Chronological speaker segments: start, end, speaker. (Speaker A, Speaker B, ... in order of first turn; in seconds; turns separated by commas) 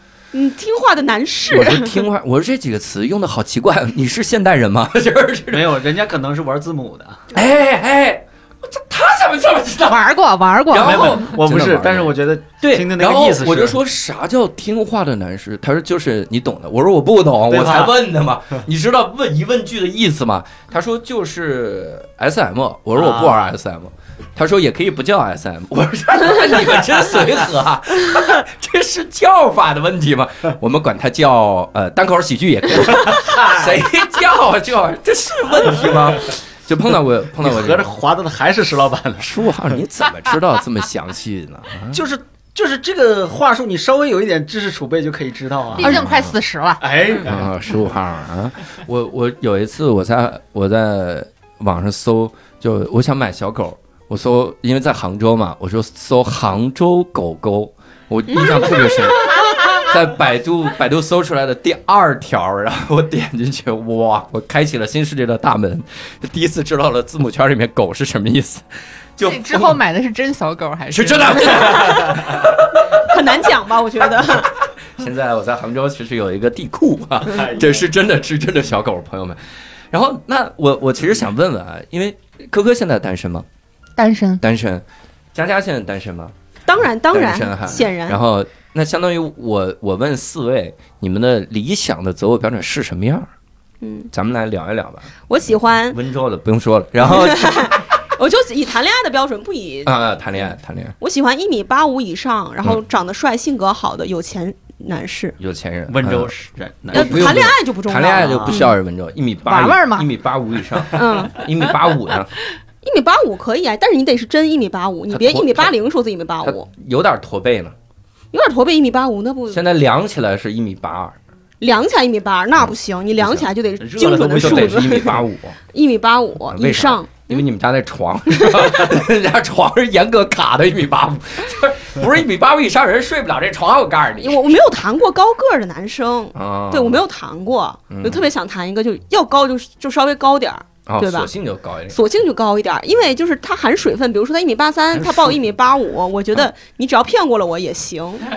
Speaker A: 0.3-2.0, Speaker B: 1.5-5.8, Speaker C: 5.5-7.2, Speaker B: 7.3-10.1, Speaker D: 9.8-11.2, Speaker B: 10.7-38.0, Speaker C: 10.7-13.8, Speaker C: 17.5-18.0, Speaker C: 22.9-23.5, Speaker C: 33.2-33.8, Speaker C: 37.4-39.3, Speaker B: 39.2-42.0, Speaker C: 41.9-46.1, Speaker B: 45.8-46.3, Speaker D: 45.8-46.9, Speaker C: 46.8-47.5, Speaker B: 47.2-68.6, Speaker A: 58.3-59.8, Speaker B: 69.2-69.8, Speaker D: 69.2-71.9, Speaker B: 70.9-73.3, Speaker A: 71.6-74.5, Speaker B: 74.4-79.4, Speaker C: 77.3-77.8, Speaker B: 79.9-83.5, Speaker D: 84.0-84.4, Speaker B: 84.4-86.3, Speaker A: 86.7-88.2, Speaker B: 87.1-93.3, Speaker A: 93.8-94.1, Speaker B: 94.1-95.1, Speaker A: 95.3-96.0, Speaker B: 95.8-97.8, Speaker A: 97.0-100.5, Speaker B: 99.8-100.9, Speaker A: 101.0-105.3, Speaker B: 105.4-106.3, Speaker C: 105.9-107.5, Speaker B: 106.9-112.3, Speaker A: 106.9-108.7, Speaker C: 108.3-108.6, Speaker D: 109.4-110.1, Speaker A: 110.9-111.4, Speaker A: 112.8-116.7, Speaker B: 115.1-115.7, Speaker B: 116.4-117.7, Speaker A: 118.3-119.6, Speaker B: 119.5-121.2, Speaker A: 121.6-125.2, Speaker B: 122.5-123.5, Speaker C: 123.8-125.1, Speaker B: 124.4-125.6, Speaker A: 125.7-127.4, Speaker B: 126.5-134.5, Speaker A: 128.3-128.9, Speaker A: 134.2-141.3, Speaker B: 136.3-137.0, Speaker B: 137.9-138.3, Speaker B: 140.9-142.0, Speaker A: 141.9-148.2